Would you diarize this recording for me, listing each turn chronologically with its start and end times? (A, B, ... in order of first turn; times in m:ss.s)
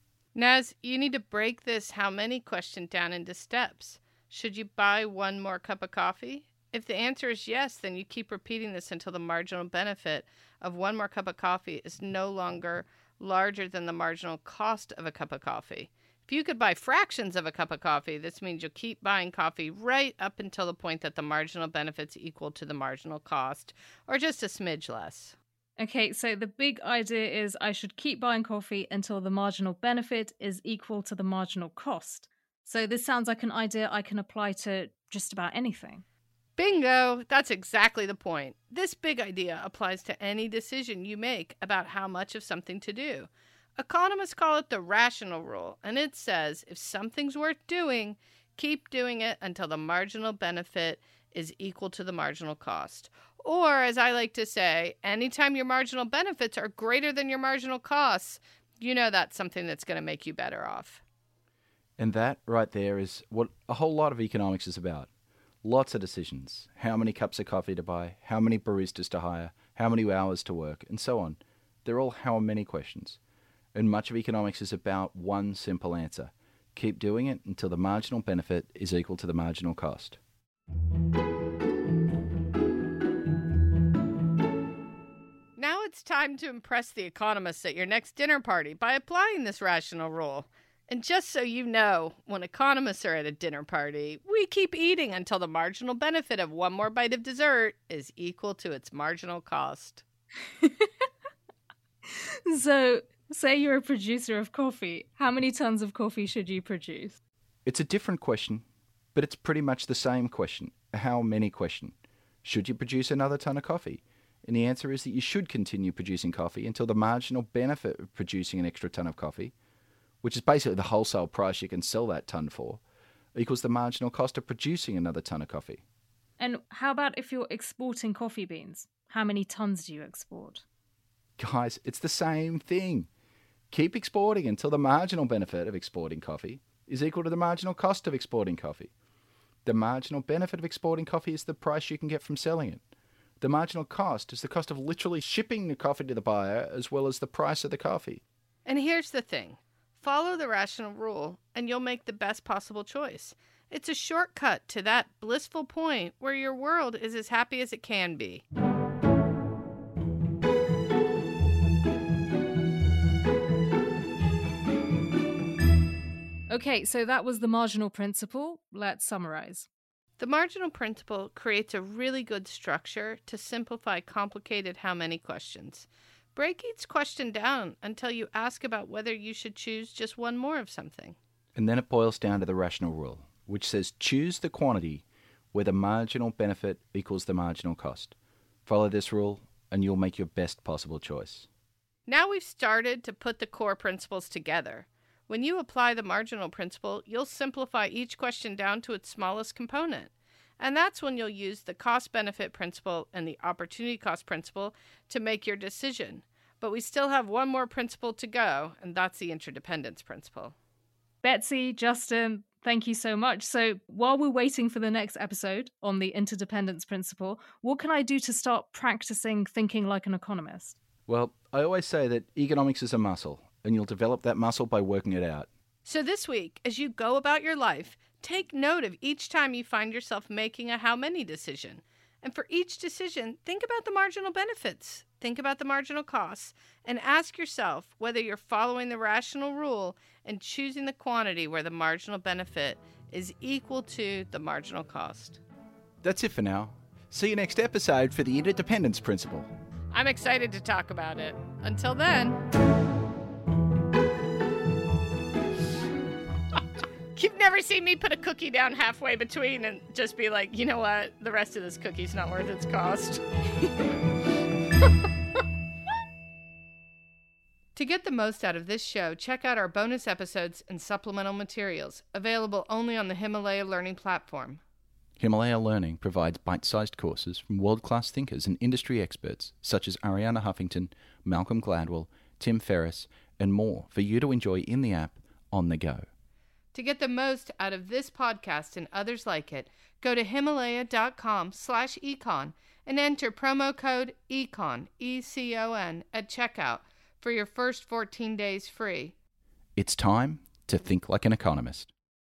0:00.3-0:25.4 A
0:25.8-0:36.0 B
0:36.6-1:01.0 A
1:02.0-1:05.1 C
1:05.6-1:13.2 C
1:13.8-1:20.2 C
1:25.6-1:40.0 A
1:42.5-1:47.2 B
1:47.7-1:59.5 C
2:00.2-2:02.8 C
2:03.4-2:05.8 C
2:06.4-2:10.6 B
2:11.4-2:13.1 C
2:13.7-2:18.9 C
2:19.6-2:22.8 C
2:23.4-2:28.2 C
2:28.6-2:38.4 A
2:46.5-2:49.7 B
2:50.2-3:01.2 A
3:01.6-3:08.1 C
3:08.7-3:11.5 C
3:12.1-3:30.6 A
3:31.2-3:40.8 B
3:41.1-3:45.5 C
3:45.8-4:05.4 A
4:06.0-4:09.5 C
4:09.9-4:12.4 A
4:17.1-4:23.2 A
4:27.8-4:34.6 A
4:35.2-4:46.1 C
4:46.7-4:59.2 A
4:59.8-5:01.9 C